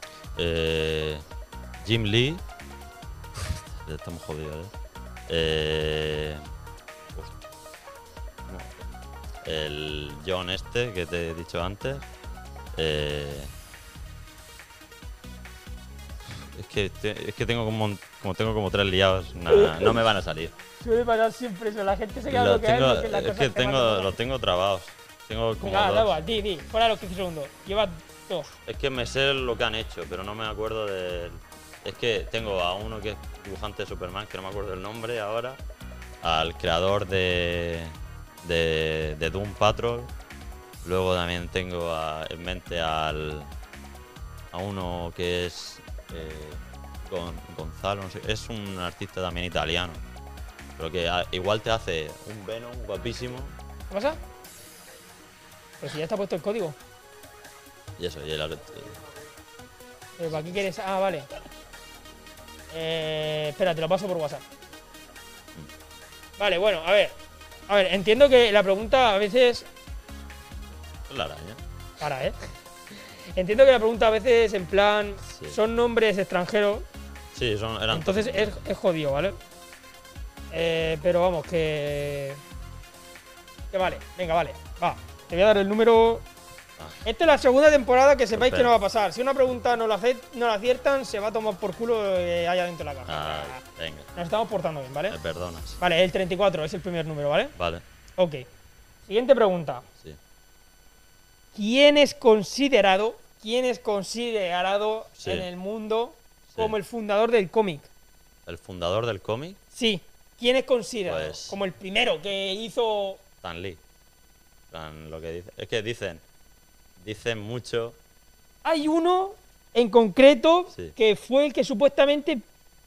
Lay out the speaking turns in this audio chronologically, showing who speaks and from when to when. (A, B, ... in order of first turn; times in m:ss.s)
0:00.4-0:01.2 A
0:01.8-0:02.4 A
0:03.3-0:04.7 A
0:05.3-0:06.5 A
0:07.1-0:07.4 A
0:08.5-0:08.8 A
0:09.4-0:12.1 A
0:12.8-0:13.5 A
0:16.3-0:20.5 A
0:19.6-0:19.9 B
0:20.8-0:24.1 B
0:22.3-0:26.2 A
0:25.6-0:28.6 B
0:28.7-0:35.6 A
0:36.2-0:40.1 A
0:40.8-0:43.5 A
0:44.5-0:50.0 A
0:50.8-0:53.6 A
0:53.9-0:54.2 B
0:55.8-0:56.8 B
0:58.0-0:59.0 A
1:00.2-1:01.3 B
1:02.7-1:04.4 B
1:06.4-1:07.1 B
1:07.7-1:09.7 B
1:11.1-1:11.6 A
1:12.0-1:12.4 B
1:13.3-1:16.9 B
1:15.3-1:15.6 A
1:17.3-1:18.6 A
1:17.9-1:19.4 B
1:20.5-1:22.4 B
1:23.7-1:26.2 B
1:27.0-1:33.6 B
1:28.3-1:28.7 A
1:33.1-1:34.1 A
1:34.2-1:35.2 B
1:35.1-1:35.8 A
1:35.8-1:37.5 B
1:37.6-1:37.8 A
1:38.2-1:38.5 B
1:39.1-1:39.9 B
1:41.6-1:47.9 B
1:45.2-1:45.5 A
1:48.5-1:49.6 A
1:49.7-1:53.2 B
1:51.1-1:51.6 A
1:53.4-1:53.8 A
1:54.7-1:56.2 A
1:57.0-1:58.0 A
1:58.6-2:02.4 B